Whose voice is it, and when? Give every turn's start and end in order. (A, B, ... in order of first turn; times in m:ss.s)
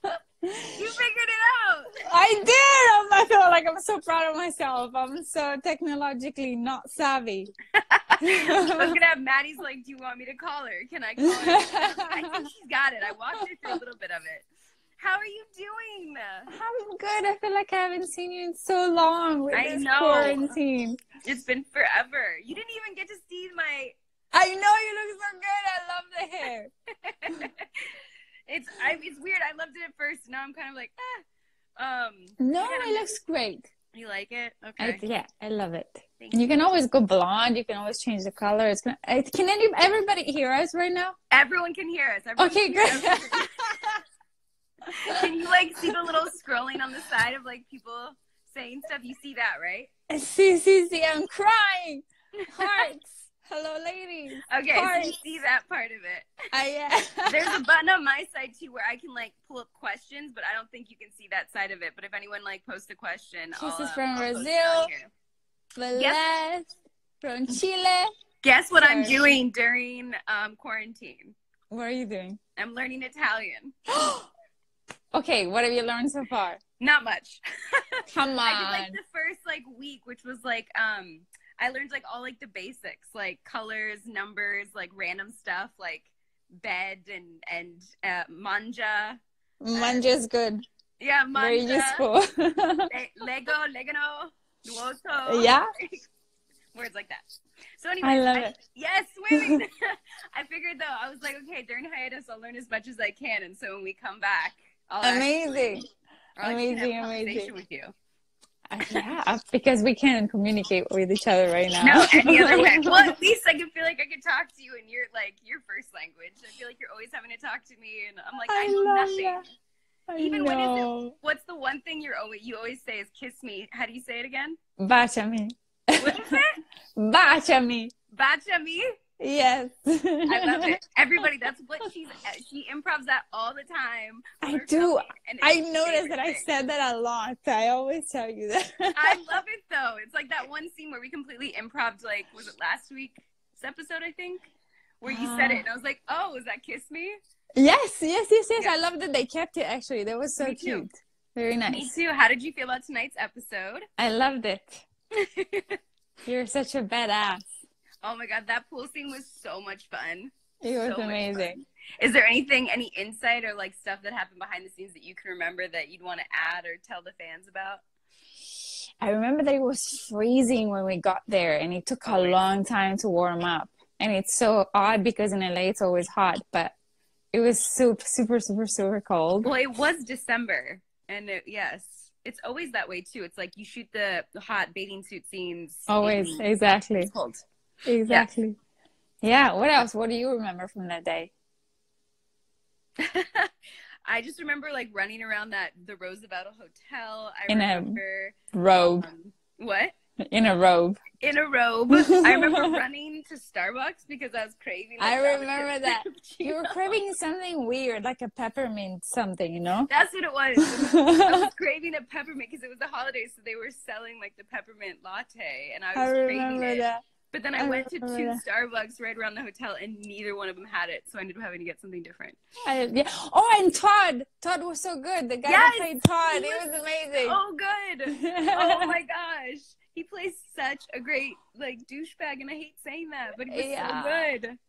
0:00.4-0:00.8 A
0:00.8-0:01.9 B
0:02.0-0:07.5 A
0:07.8-0:14.5 B
0:08.2-0:09.0 A
0:11.2-0:12.5 A
0:15.0-0:16.5 B
0:16.5-0:21.0 A
0:19.5-0:20.6 B
0:21.2-0:24.0 B
0:24.3-0:26.7 A
0:27.0-0:27.9 B
0:28.5-0:31.2 B
0:31.8-0:33.2 B
0:32.4-0:33.7 A
0:33.9-0:35.0 B
0:34.8-0:41.2 A
0:36.2-0:36.5 B
0:41.3-0:43.8 B
0:42.4-0:44.0 A
0:44.9-0:49.9 B
0:44.9-0:45.2 A
0:45.8-0:46.1 A
0:50.1-0:55.2 A
0:52.4-0:52.9 B
0:54.5-0:56.3 B
0:56.5-0:57.6 A
0:57.3-1:05.1 B
1:03.6-1:04.9 A
1:05.8-1:08.1 A
1:06.0-1:06.2 B
1:08.4-1:11.4 B
1:08.8-1:09.3 A
1:11.7-1:12.4 A
1:12.6-1:13.8 B
1:13.9-1:14.3 A
1:15.1-1:16.6 A
1:16.8-1:29.2 B
1:18.1-1:19.0 A
1:29.6-1:30.6 A
1:29.7-1:30.1 B
1:31.0-1:32.1 B
1:31.4-1:32.9 A
1:32.9-1:36.0 B
1:35.3-1:35.7 A
1:36.7-1:37.2 B
1:37.8-1:39.7 B
1:38.0-1:38.6 A
1:39.3-1:39.6 A
1:40.3-1:45.8 B
1:45.0-1:45.8 A
1:46.4-1:47.9 B
1:46.4-1:47.5 A
1:48.7-1:53.1 A
1:51.8-1:59.4 B
1:58.5-1:59.4 A
2:00.1-2:01.1 A
2:00.2-2:04.6 B
2:04.8-2:06.4 A
2:06.0-2:06.6 B
2:07.0-2:07.9 A
2:08.1-2:08.9 B
2:09.2-2:10.8 A
2:10.3-2:16.5 B
2:14.4-2:19.2 A
2:19.0-2:24.5 B
2:25.0-2:27.2 B
2:25.1-2:25.6 A
2:27.6-2:31.9 A
2:30.4-2:30.9 B
2:31.7-2:33.9 B
2:34.0-2:34.8 A
2:35.2-2:35.8 B
2:36.3-2:37.5 A
2:38.0-2:47.8 B
2:40.6-2:41.6 A
2:49.0-2:56.8 A
2:52.0-2:52.4 B
2:57.3-2:59.5 A
2:59.4-3:07.4 B
3:05.9-3:07.1 A
3:07.9-3:08.6 A
3:09.2-3:11.3 A
3:13.0-3:13.5 B
3:14.1-3:19.9 B
3:17.5-3:18.0 A
3:18.5-3:19.1 A
3:20.2-3:21.0 A
3:21.2-3:27.0 B
3:21.9-3:22.8 A
3:25.0-3:29.9 A
3:29.9-3:42.4 B
3:30.6-3:31.5 A
3:36.0-3:37.0 A
3:37.6-3:38.4 A
3:42.6-3:47.4 A
3:45.4-3:46.6 B
3:47.2-3:54.6 B
3:48.1-3:49.0 A
3:53.5-3:54.3 A